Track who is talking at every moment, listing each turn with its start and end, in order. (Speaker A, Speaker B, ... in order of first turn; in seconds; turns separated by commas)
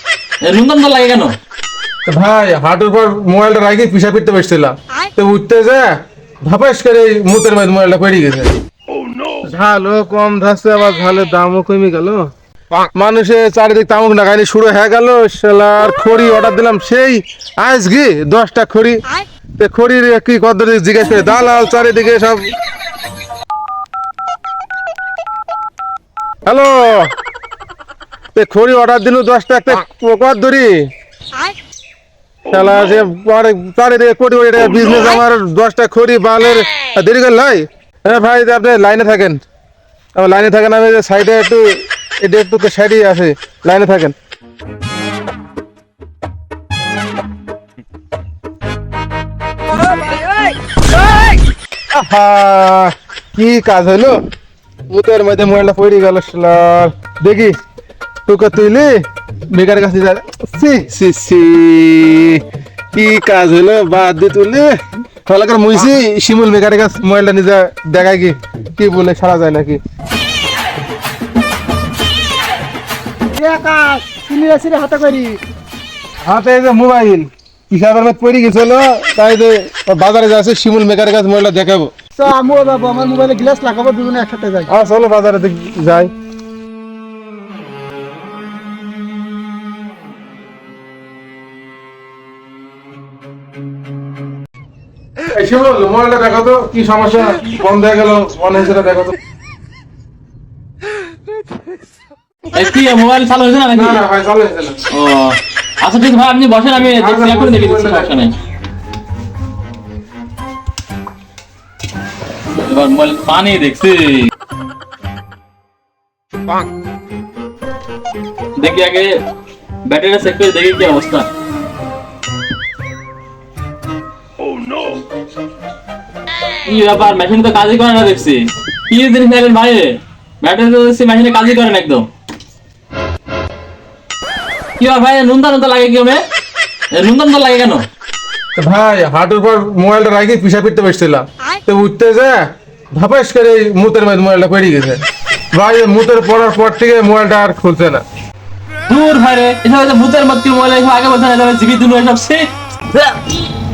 Speaker A: 0.4-1.3, Speaker B: 2.1-5.9, Speaker B: 6.5-8.5, Speaker B: 9.4-12.3, Speaker B: 12.9-19.0, Speaker B: 19.6-22.5, Speaker B: 26.5-27.1, Speaker B: 28.3-30.8, Speaker B: 32.5-39.4, Speaker B: 40.2-44.1, Speaker B: 51.9-54.2, Speaker B: 54.9-57.5, Speaker B: 58.3-58.9, Speaker B: 59.5-62.4, Speaker B: 62.9-64.8, Speaker B: 65.3-69.8, Speaker C: 73.3-75.4, Speaker B: 76.2-81.9, Speaker C: 82.2-84.7, Speaker B: 84.7-86.1, Speaker B: 95.3-99.2, Speaker A: 102.5-104.0, Speaker B: 103.7-104.8, Speaker A: 104.9-108.3, Speaker B: 106.9-108.1, Speaker A: 112.5-114.3, Speaker A: 118.6-119.1, Speaker A: 119.9-121.3, Speaker A: 126.7-132.1, Speaker A: 134.8-136.2, Speaker A: 136.9-137.8, Speaker B: 138.6-142.4, Speaker B: 142.9-148.0, Speaker A: 148.9-153.2